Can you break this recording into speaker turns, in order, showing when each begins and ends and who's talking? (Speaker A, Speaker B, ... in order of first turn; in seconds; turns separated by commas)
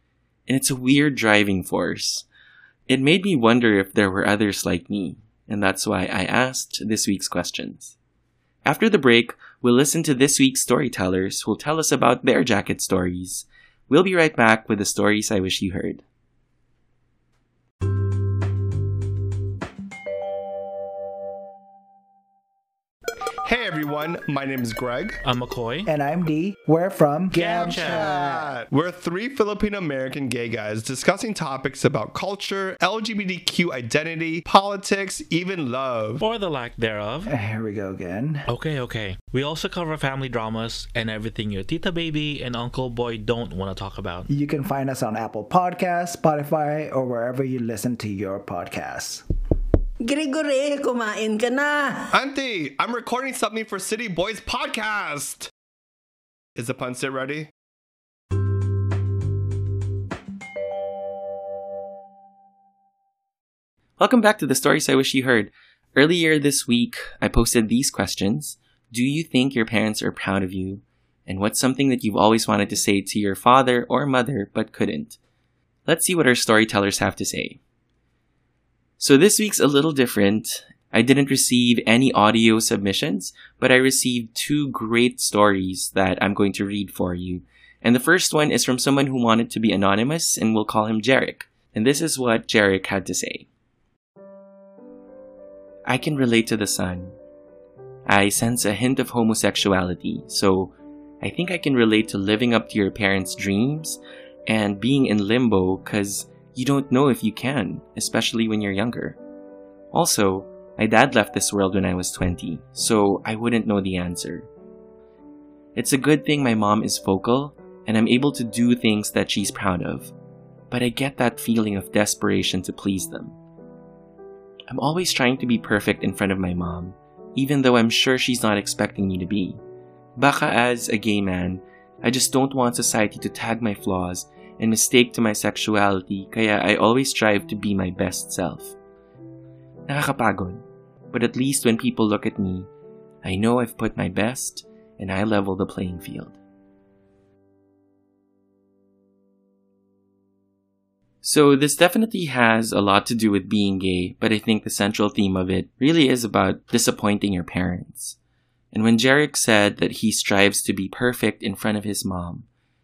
Speaker A: 0.5-2.3, Speaker A: 2.9-8.0, Speaker A: 8.7-16.1, Speaker B: 23.4-25.2, Speaker C: 25.2-25.9, Speaker D: 25.9-28.6, Speaker C: 27.3-28.1, Speaker B: 27.6-36.2, Speaker C: 36.2-37.3, Speaker D: 37.3-38.5, Speaker C: 38.5-44.3, Speaker D: 44.3-49.2, Speaker E: 50.0-52.1, Speaker B: 52.1-55.5, Speaker B: 56.6-57.5, Speaker A: 64.0-75.2, Speaker A: 75.9-77.6, Speaker A: 79.0-93.5, Speaker A: 95.9-97.1, Speaker A: 98.1-109.2, Speaker A: 109.9-114.5, Speaker A: 115.8-120.1, Speaker A: 120.7-123.4, Speaker A: 124.7-129.6, Speaker A: 130.2-138.8, Speaker A: 139.9-142.7, Speaker A: 143.2-146.4, Speaker A: 151.2-158.2, Speaker A: 158.7-162.5